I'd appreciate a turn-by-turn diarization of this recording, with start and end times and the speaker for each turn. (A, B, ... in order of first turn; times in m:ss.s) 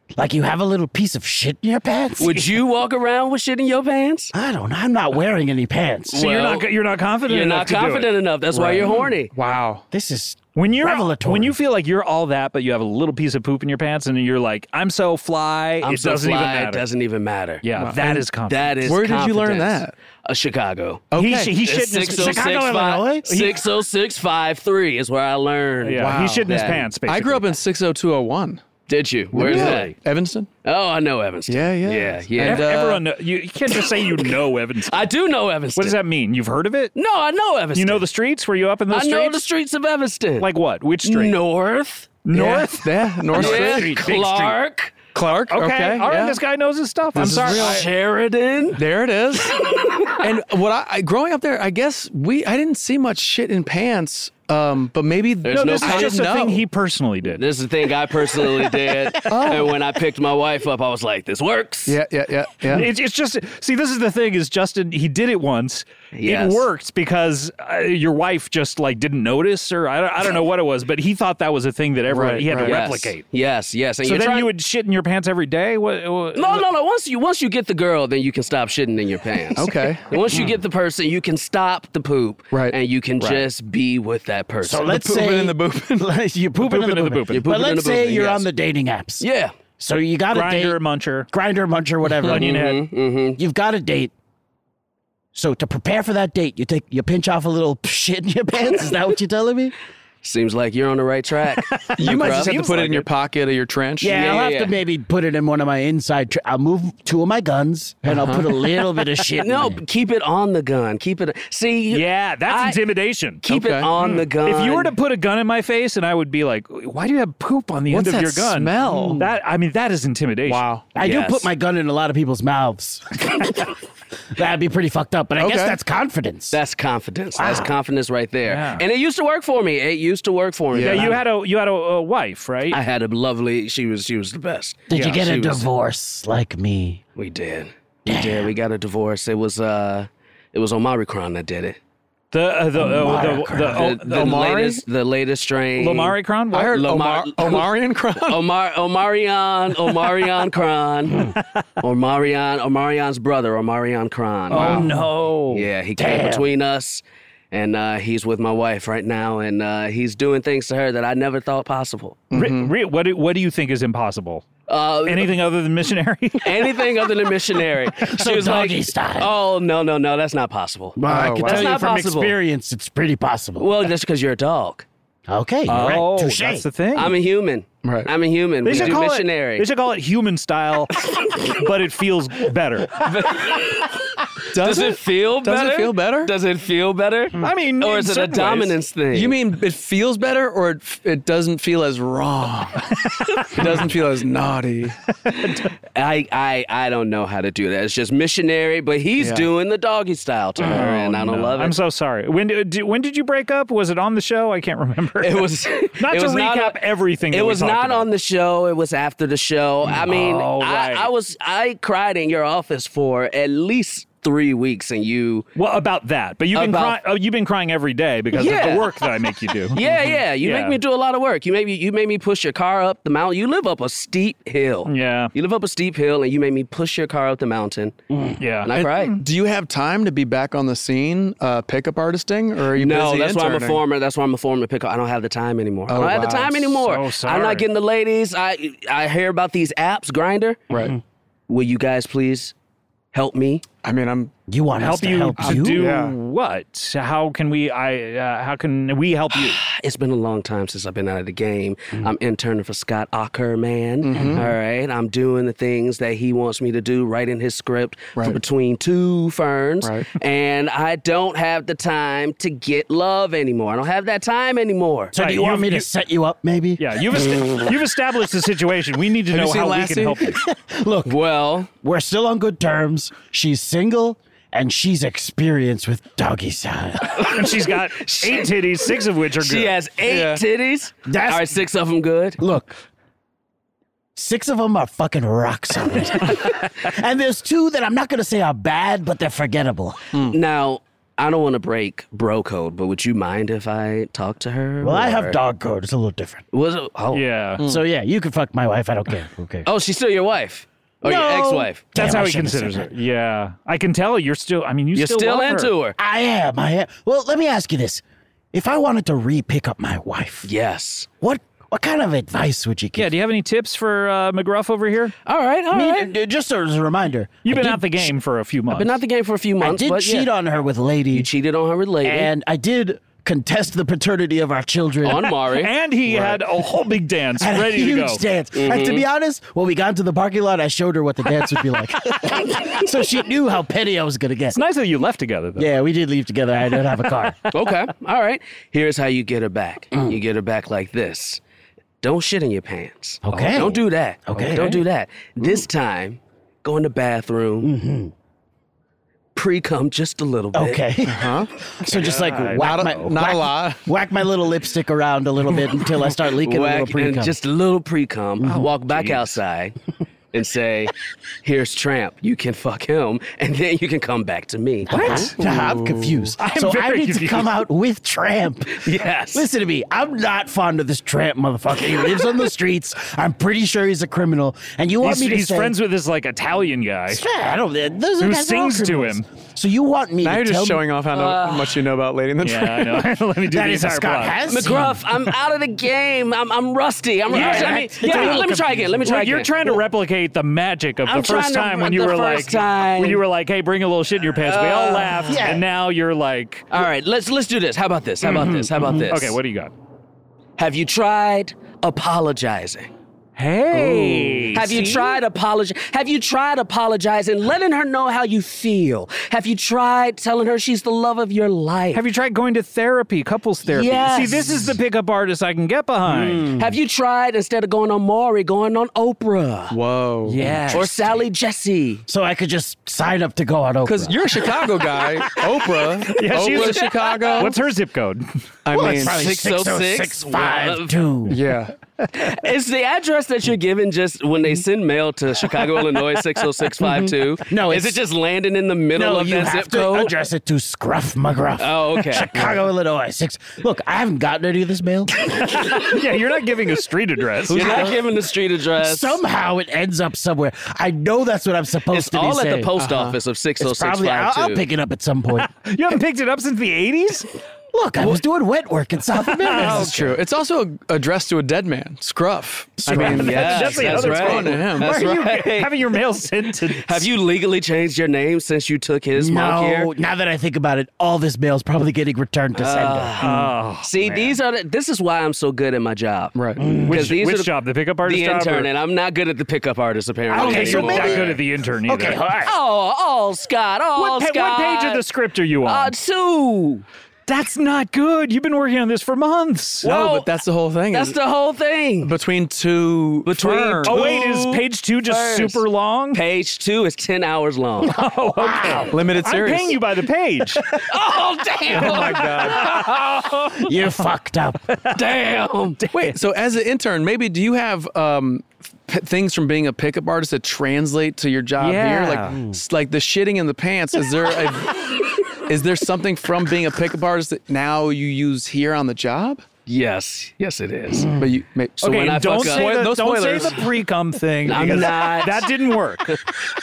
0:00.2-0:02.4 A
0:02.2-0:04.3 B
0:04.3-0:06.2 A
0:06.1-0:06.7 B
0:06.1-0:08.1 C
0:07.2-0:09.3 B
0:08.5-0:09.8 D
0:09.9-0:11.6 A
0:10.6-0:16.8 C
0:15.8-0:26.8 B
0:17.6-0:18.7 C
0:17.8-0:18.1 D
0:18.8-0:19.9 D
0:21.1-0:21.6 D
0:21.2-0:22.6 C
0:22.1-0:23.4 A
0:23.3-0:23.6 C
0:25.8-0:27.6 C
0:26.0-0:28.6 D
0:28.9-0:30.0 B
0:29.3-0:30.5 D
0:29.4-0:29.9 C
0:30.6-0:32.7 B
0:31.5-0:33.0 D
0:32.4-0:35.0 C
0:34.9-0:36.0 B
0:35.8-0:37.0 C
0:37.0-0:38.1 B
0:37.7-0:39.4 C
0:38.9-0:40.5 B
0:40.4-0:41.4 C
0:41.0-0:42.2 B
0:42.2-0:44.6 C
0:42.3-0:44.0 D
0:43.3-0:45.0 B
0:45.1-0:46.4 D
0:45.5-0:47.8 C
0:47.2-0:47.9 D
0:47.2-0:48.8 B
0:48.7-0:49.6 D
0:49.5-0:50.2 B
0:50.2-0:56.7 D
0:55.4-0:56.3 B
0:55.5-0:57.4 C
0:57.3-1:02.0 B
0:59.3-0:59.8 D
1:01.9-1:02.9 D
1:02.7-1:13.2 C
1:06.1-1:06.7 B
1:12.1-1:12.8 D
1:12.5-1:14.5 B
1:14.0-1:16.6 C
1:16.3-1:24.9 B
1:19.6-1:20.5 D
1:22.5-1:23.5 D
1:24.6-1:29.2 A
1:24.8-1:26.2 D
1:26.6-1:27.4 C
1:27.3-1:28.5 B
1:29.2-1:29.5 B
1:29.8-1:32.8 A
1:30.3-1:31.3 C
1:32.2-1:33.4 B
1:32.3-1:32.8 C
1:33.4-1:34.1 A
1:35.3-1:39.8 A
1:40.2-1:42.6 B
1:41.7-1:43.1 C
1:42.0-1:44.2 D
1:44.0-1:49.8 A
1:44.1-1:44.8 B
1:48.0-1:48.5 D
1:49.4-1:52.8 B
1:51.9-1:53.4 C
1:53.4-1:54.9 B
1:53.5-1:54.2 D
1:54.4-2:00.6 C
1:57.9-1:59.2 D
1:58.9-1:59.2 A
2:00.5-2:00.9 D
2:01.0-2:03.7 A
2:01.0-2:01.5 B
2:04.3-2:06.6 A
2:05.4-2:05.8 D
2:06.5-2:11.2 B
2:07.4-2:07.7 A
2:08.5-2:08.8 C
2:10.7-2:11.2 D
2:10.8-2:12.8 C
2:12.7-2:15.7 B
2:14.9-2:17.0 A
2:17.2-2:21.8 B
2:18.0-2:18.5 A
2:22.3-2:24.5 C
2:22.8-2:23.8 A
2:23.7-2:26.2 B
2:24.1-2:24.8 D
2:25.8-2:26.8 C
2:26.5-2:28.4 D
2:26.7-2:35.0 B
2:34.5-2:35.6 C
2:34.6-2:34.8 A
2:35.5-2:42.2 B
2:36.0-2:36.5 A
2:42.3-2:42.7 D
2:42.3-2:44.5 C
2:44.7-2:45.4 B
2:45.0-2:46.8 C
2:46.4-2:52.4 B
2:48.0-2:49.3 A
2:51.0-2:53.9 A
2:51.1-2:51.7 D
2:53.6-2:54.9 B
2:55.3-2:56.7 A
2:55.7-2:57.1 C
2:56.9-2:59.7 B
2:57.8-2:58.1 D
2:58.6-3:03.0 C
3:01.0-3:01.5 B
3:03.0-3:09.4 B
3:04.5-3:06.3 D
3:07.4-3:08.8 C
3:09.1-3:12.8 D
3:13.1-3:13.6 C
3:13.5-3:15.0 D
3:15.3-3:15.7 C
3:15.5-3:21.8 B
3:19.2-3:19.5 D
3:20.6-3:28.1 C
3:25.2-3:35.5 B
3:30.0-3:31.1 C
3:35.6-3:39.8 C
3:36.5-3:37.0 B
3:38.3-3:48.0 B
3:40.4-3:40.8 C
3:44.9-3:45.3 C
3:48.4-3:49.2 C
3:48.6-3:49.2 B
3:48.7-3:53.8 D
3:52.7-4:00.7 B
3:55.9-3:56.8 D
3:56.8-3:57.7 C
4:00.7-4:01.0 D
4:01.5-4:02.5 B
4:03.1-4:03.6 B
4:03.8-4:04.3 D
4:04.5-4:06.0 A
4:04.8-4:09.6 C
4:05.4-4:06.2 D
4:09.4-4:25.1 B
4:14.0-4:14.5 D
4:19.8-4:20.1 D
4:25.1-4:27.4 A
4:25.2-4:25.9 C
4:26.8-4:30.4 C
4:29.3-4:30.2 D
4:30.4-4:37.2 A
4:31.0-4:31.7 B
4:37.2-4:42.4 B
4:37.2-4:39.8 C
4:40.0-4:40.4 D
4:41.0-4:41.6 A
4:42.4-4:42.8 A
4:44.2-4:50.1 A
4:50.2-4:55.4 B
4:54.8-4:56.4 A
4:56.5-4:57.3 B
4:57.1-4:57.6 C
4:57.6-4:57.8 D
4:57.6-4:59.7 A
4:59.6-5:01.9 B
5:01.0-5:02.9 A
5:02.0-5:05.7 C
5:04.9-5:06.0 B
5:06.0-5:08.0 A
5:08.5-5:10.5 A
5:10.4-5:11.1 B
5:11.2-5:13.1 A
5:13.0-5:15.2 C
5:15.3-5:16.1 B
5:15.7-5:18.1 A
5:17.4-5:19.0 C
5:18.7-5:20.3 B
5:19.6-5:21.3 A
5:21.1-5:22.3 B
5:22.0-5:25.4 A
5:25.0-5:26.4 B
5:25.6-5:28.2 C
5:27.4-5:34.6 A
5:28.6-5:29.0 B
5:34.5-5:35.7 C
5:35.6-5:37.5 A
5:37.5-5:41.4 B
5:39.9-5:40.2 A
5:42.0-5:47.7 B
5:43.2-5:44.8 A
5:43.3-5:43.7 C
5:47.6-5:48.1 A
5:49.4-5:51.0 B
5:50.5-5:57.4 A
5:51.0-5:51.5 D
5:51.9-5:53.2 C
5:52.6-5:53.9 D
5:56.2-5:59.8 B
5:58.4-5:59.2 C
6:00.3-6:00.9 B
6:01.4-6:05.3 B
6:04.9-6:15.8 A
6:04.9-6:05.3 C
6:05.4-6:06.4 D
6:06.4-6:07.6 C
6:08.8-6:09.5 B
6:15.0-6:17.2 C
6:17.1-6:21.0 A
6:18.2-6:19.3 C
6:20.2-6:23.1 D
6:21.1-6:21.8 B
6:22.4-6:24.9 C
6:23.5-6:25.0 A
6:24.5-6:29.8 B
6:27.3-6:29.0 A
6:27.3-6:28.5 C
6:29.0-6:36.7 C
6:31.0-6:33.2 B
6:34.4-6:35.5 B
6:35.3-6:35.6 A
6:36.7-6:39.4 B
6:38.2-6:39.1 A
6:39.1-6:39.7 C
6:40.6-6:42.9 B
6:43.4-6:45.1 C
6:43.8-6:52.0 B
6:51.9-6:56.5 C
6:53.6-6:54.6 B
6:56.1-6:56.8 A
6:56.6-6:59.8 B
6:59.7-7:00.4 D
7:00.3-7:01.0 C
7:00.4-7:01.0 A
7:00.7-7:02.0 B
7:02.1-7:04.5 A
7:03.8-7:07.6 D
7:06.2-7:08.3 C
7:06.3-7:07.5 B
7:08.6-7:09.3 D
7:08.7-7:11.4 A
7:08.9-7:11.0 B
7:11.3-7:11.7 D
7:12.1-7:20.2 B
7:16.8-7:18.0 A
7:18.9-7:25.1 A
7:21.6-7:22.7 B
7:25.4-7:27.9 C
7:27.5-7:29.2 B
7:27.5-7:28.0 A
7:28.8-7:32.8 A
7:31.9-7:34.7 B
7:32.8-7:33.2 D
7:33.6-7:35.5 A
7:35.4-7:37.3 C
7:37.7-7:40.2 A
7:39.2-7:39.9 C
7:39.6-7:44.9 D
7:42.8-7:43.7 A
7:42.9-7:47.1 C
7:42.9-7:46.0 B
7:46.7-7:49.9 B
7:49.2-7:53.3 A
7:52.5-8:01.4 B
7:53.2-7:54.3 C
7:56.4-7:56.6 D
7:56.6-7:57.2 A
7:56.9-7:58.7 C
8:00.3-8:02.5 A
8:00.3-8:02.2 C
8:02.4-8:05.1 B
8:04.0-8:05.9 C
8:05.6-8:06.8 B
8:07.3-8:09.9 C
8:09.8-8:11.2 D
8:09.8-8:10.3 B
8:10.9-8:12.1 B
8:12.0-8:14.1 D
8:13.3-8:18.0 B
8:13.8-8:16.2 C
8:17.8-8:20.6 C
8:18.4-8:19.0 A
8:18.9-8:19.8 D
8:20.8-8:23.5 B
8:21.7-8:23.3 C
8:21.7-8:22.6 D
8:23.6-8:24.6 A
8:25.0-8:25.8 B
8:25.8-8:26.2 C
8:25.9-8:39.5 D
8:31.6-8:32.4 C
8:39.7-8:41.2 B
8:40.9-8:41.4 A
8:41.2-8:43.6 D
8:41.8-8:43.6 B
8:41.8-8:46.2 C
8:44.4-8:45.5 B